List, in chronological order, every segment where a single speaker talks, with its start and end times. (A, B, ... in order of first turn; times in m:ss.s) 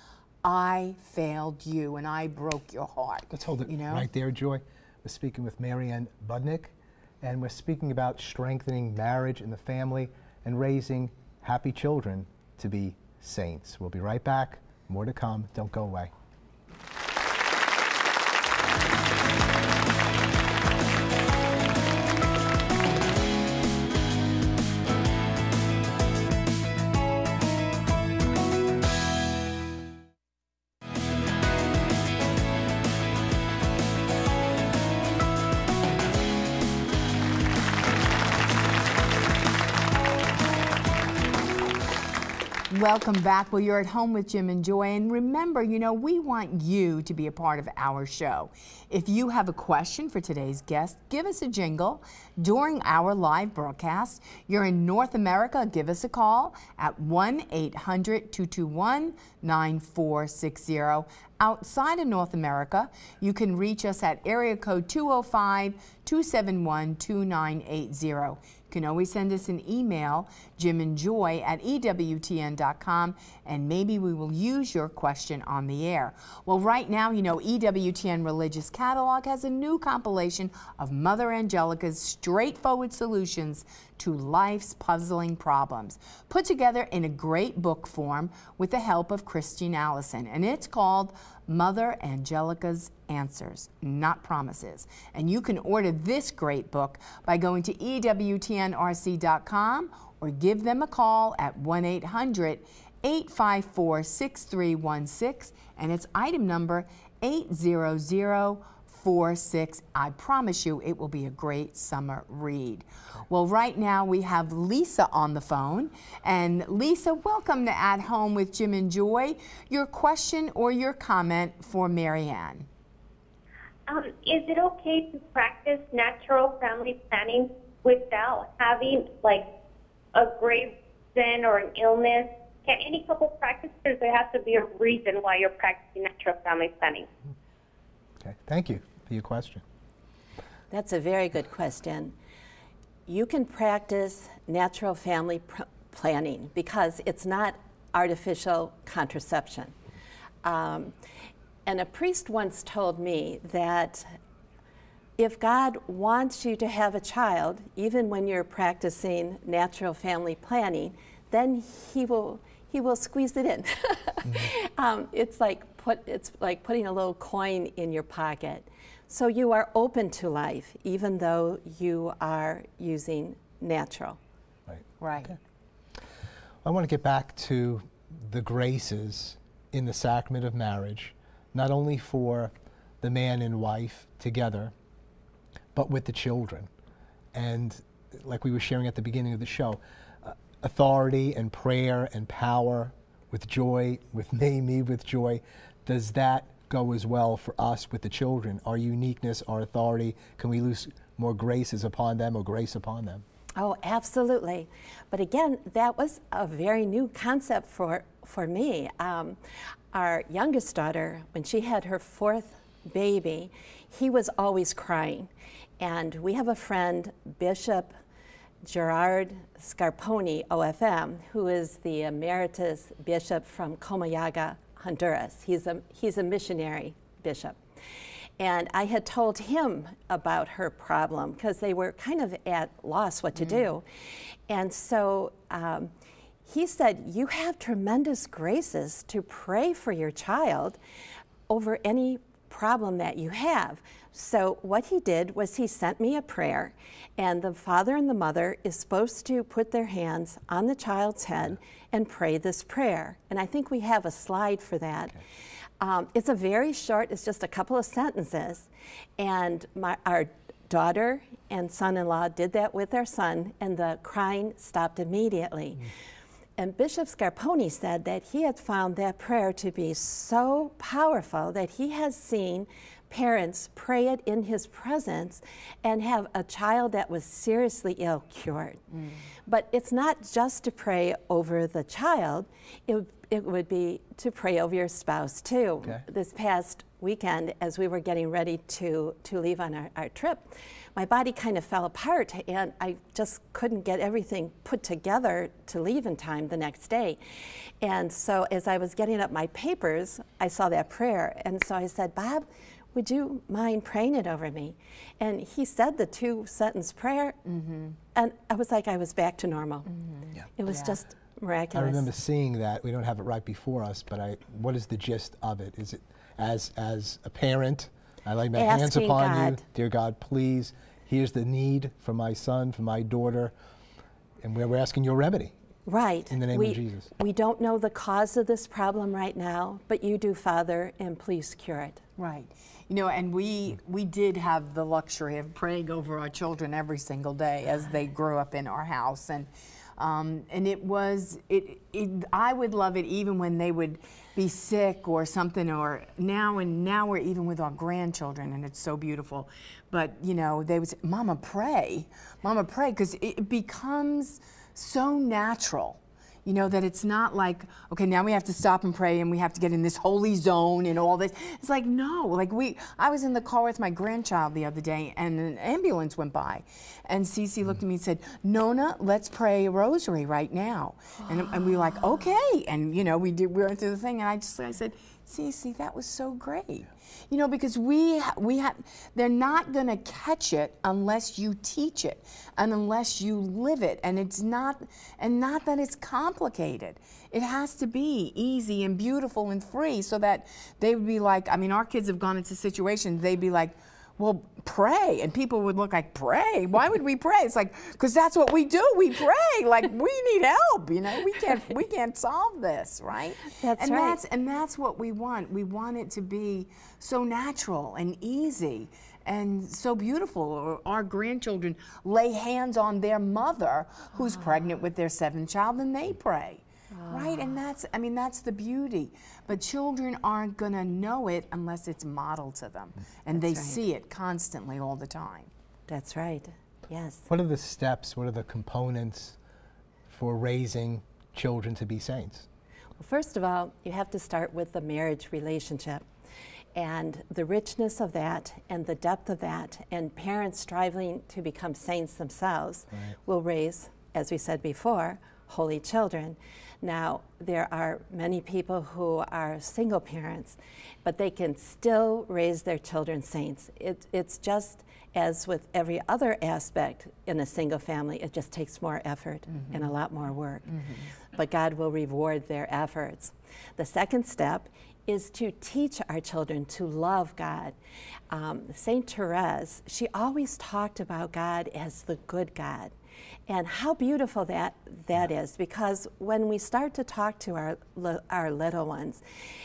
0:00.4-0:04.1 A
0:03.3-0:16.1 B
0:42.7-2:02.7 A
2:03.9-2:09.5 C
2:10.1-2:17.1 C
2:18.2-2:19.6 B
2:20.7-2:22.2 D
2:23.1-2:29.8 D
2:30.4-2:30.9 D
2:31.7-2:34.2 D
2:35.2-2:54.2 D
2:54.7-2:55.4 B
2:55.0-2:55.4 A
2:56.6-3:04.7 B
3:05.8-3:06.7 B
3:07.3-3:23.2 B
3:23.6-3:29.4 D
3:29.9-3:37.9 D
3:38.6-3:47.6 D
3:48.4-3:53.9 D
3:54.5-3:55.9 D
3:56.4-4:00.8 D
4:01.5-4:15.2 D
4:15.8-4:25.9 D
4:26.6-4:38.8 D
4:39.5-5:07.4 D
5:07.5-5:08.0 A
5:08.1-5:09.9 D
5:10.6-5:12.1 D
5:10.7-5:11.0 A
5:11.7-5:23.5 B
5:18.6-5:19.6 D
5:24.4-5:25.5 B
5:25.9-5:32.0 D
5:26.3-5:27.1 B
5:32.2-7:05.5 A
6:43.6-6:44.2 D
6:56.9-6:57.5 D
7:03.4-7:03.8 D
7:05.9-7:07.3 D
7:07.3-7:09.4 B
7:10.1-7:12.5 B
7:13.0-7:16.0 D
7:16.8-7:47.8 D
7:48.3-7:52.9 D
7:53.5-7:59.2 D